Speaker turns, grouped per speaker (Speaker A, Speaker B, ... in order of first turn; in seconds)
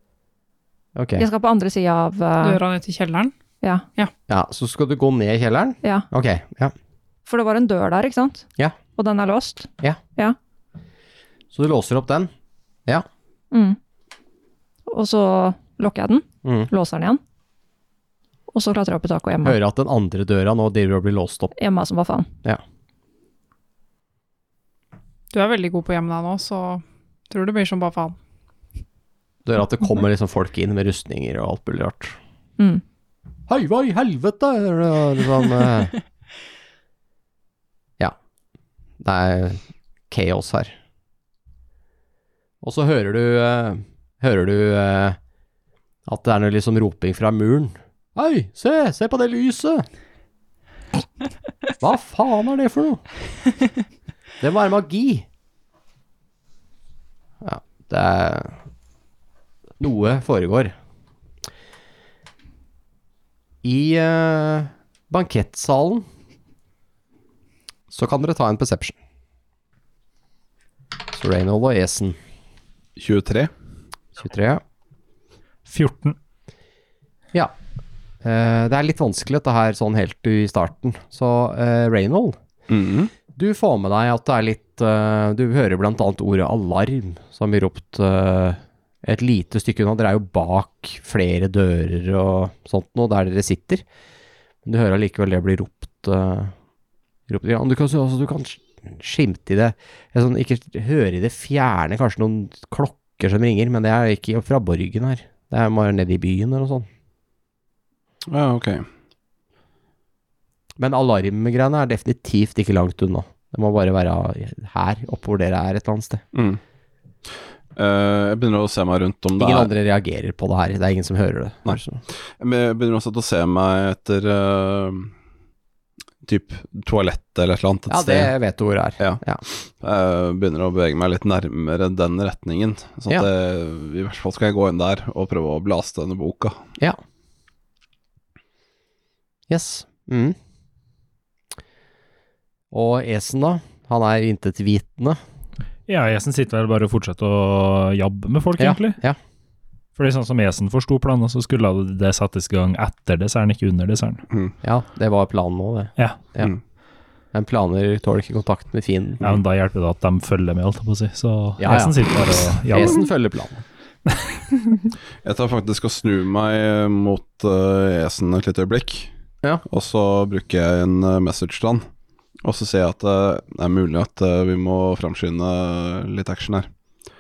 Speaker A: 1.0-1.2, 4.3-6.7, 11.5-12.3, 19.4-21.5, 29.4-32.2, 33.5-36.0, 39.0-40.7, 42.6-45.2, 46.1-49.9, 51.8-53.0, 54.4-55.2, 57.4-58.5, 59.8-60.8, 63.6-66.0, 67.9-69.0, 71.1-72.2, 74.2-74.6, 78.2-82.4, 83.3-93.8, 94.7-96.5, 97.3-106.9, 110.8-116.2, 119.4-122.0, 127.9-129.4, 139.5-140.4, 142.7-145.2, 148.6-149.2, 154.6-156.5, 157.3-159.2, 161.6-163.6
Speaker B: 1.2-2.6, 5.8-6.1, 7.3-10.4, 13.5-13.8, 14.9-17.2, 18.5-19.6, 21.6-22.3
Speaker C: 2.4-3.3, 25.3-28.2
Speaker D: 73.0-73.5, 82.7-83.1, 108.3-108.9, 116.3-116.6, 117.8-119.7, 122.4-125.1, 126.2-128.3, 129.0-136.6, 165.2-169.1, 169.7-171.9, 172.4-176.7
Speaker E: 75.7-76.2, 145.9-149.0, 150.0-154.2, 156.0-156.3, 159.2-163.1